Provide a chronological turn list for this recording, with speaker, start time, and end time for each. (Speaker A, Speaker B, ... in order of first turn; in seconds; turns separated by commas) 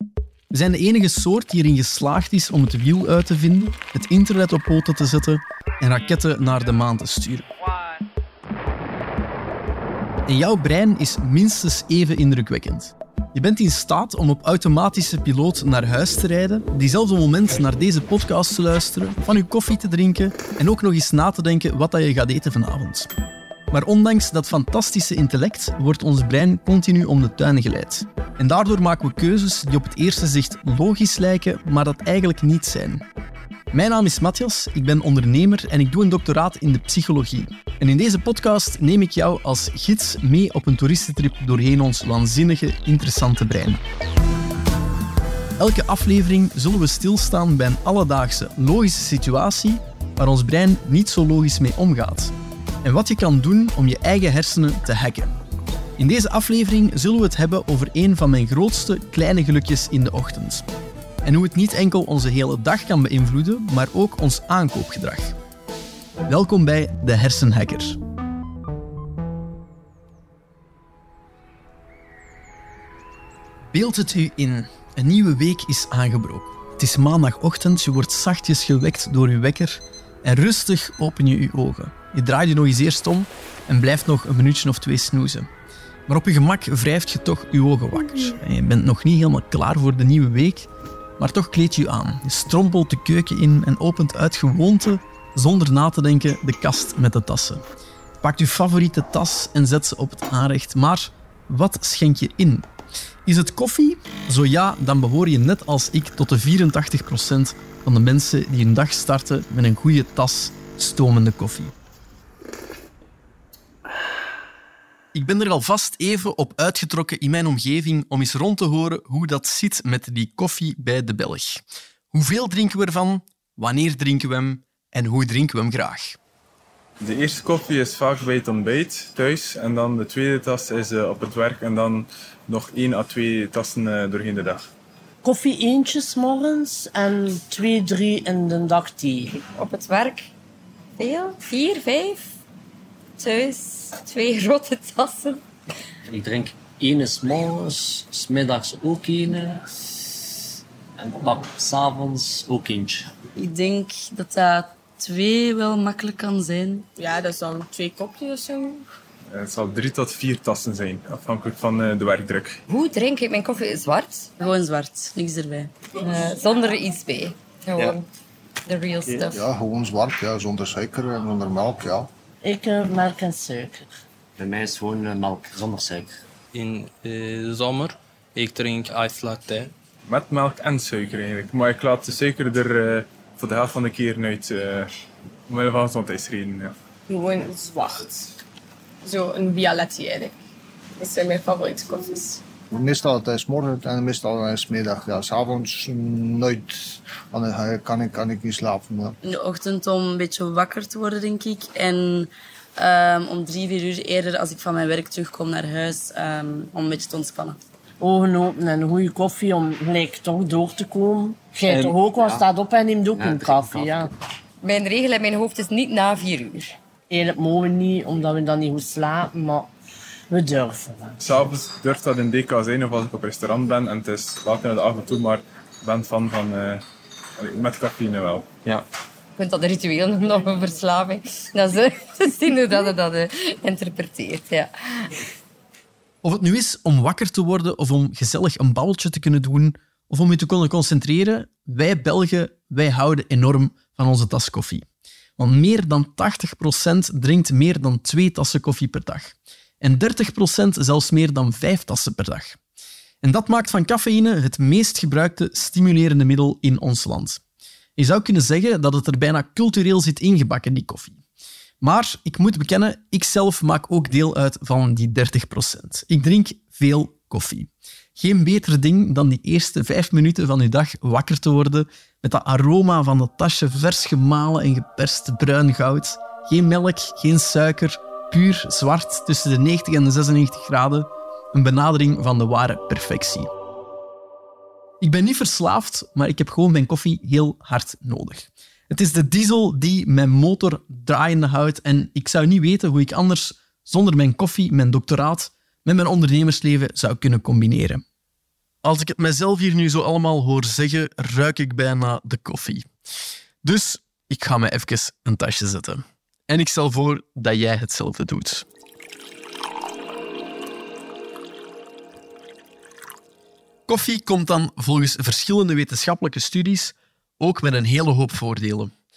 Speaker A: 0.5-7.5, Speaker A: 10.3-23.1, Speaker A: 23.7-33.0, Speaker A: 33.7-43.8, Speaker A: 45.6-55.3, Speaker A: 56.0-60.7, Speaker A: 61.2-65.4, Speaker A: 66.2-68.0, Speaker A: 73.7-85.5, Speaker A: 86.1-97.6, Speaker A: 98.2-102.7, Speaker A: 103.2-111.7, Speaker A: 115.1-126.2, Speaker B: 127.0-134.7, Speaker C: 135.2-139.3, Speaker D: 139.5-140.3, Speaker D: 141.0-142.3, Speaker D: 143.2-145.4, Speaker E: 146.1-150.4, Speaker E: 151.0-153.1, Speaker F: 153.3-156.9, Speaker G: 156.9-158.8, Speaker B: 159.3-162.6, Speaker D: 162.7-164.3, Speaker F: 164.4-165.7, Speaker D: 166.0-168.1, Speaker D: 168.7-169.4, Speaker H: 169.2-172.1, Speaker C: 172.4-173.8, Speaker E: 174.4-176.1, Speaker I: 176.5-179.7, Speaker B: 180.1-184.9, Speaker B: 185.5-186.7, Speaker G: 187.1-188.3, Speaker G: 189.0-190.3, Speaker G: 191.0-192.4, Speaker H: 192.7-199.2, Speaker F: 199.2-207.6, Speaker C: 208.0-214.1, Speaker E: 211.7-212.4, Speaker E: 213.1-214.1, Speaker D: 214.6-216.7, Speaker C: 217.1-219.7, Speaker C: 220.3-221.1, Speaker B: 221.2-226.8, Speaker B: 227.4-228.5, Speaker D: 229.4-235.2, Speaker A: 236.2-244.8, Speaker A: 245.4-252.6, Speaker A: 253.2-257.4, Speaker A: 258.0-261.2, Speaker A: 261.8-283.5, Speaker A: 285.0-298.0, Speaker A: 298.8-302.9, Speaker A: 303.6-308.6, Speaker A: 313.9-318.9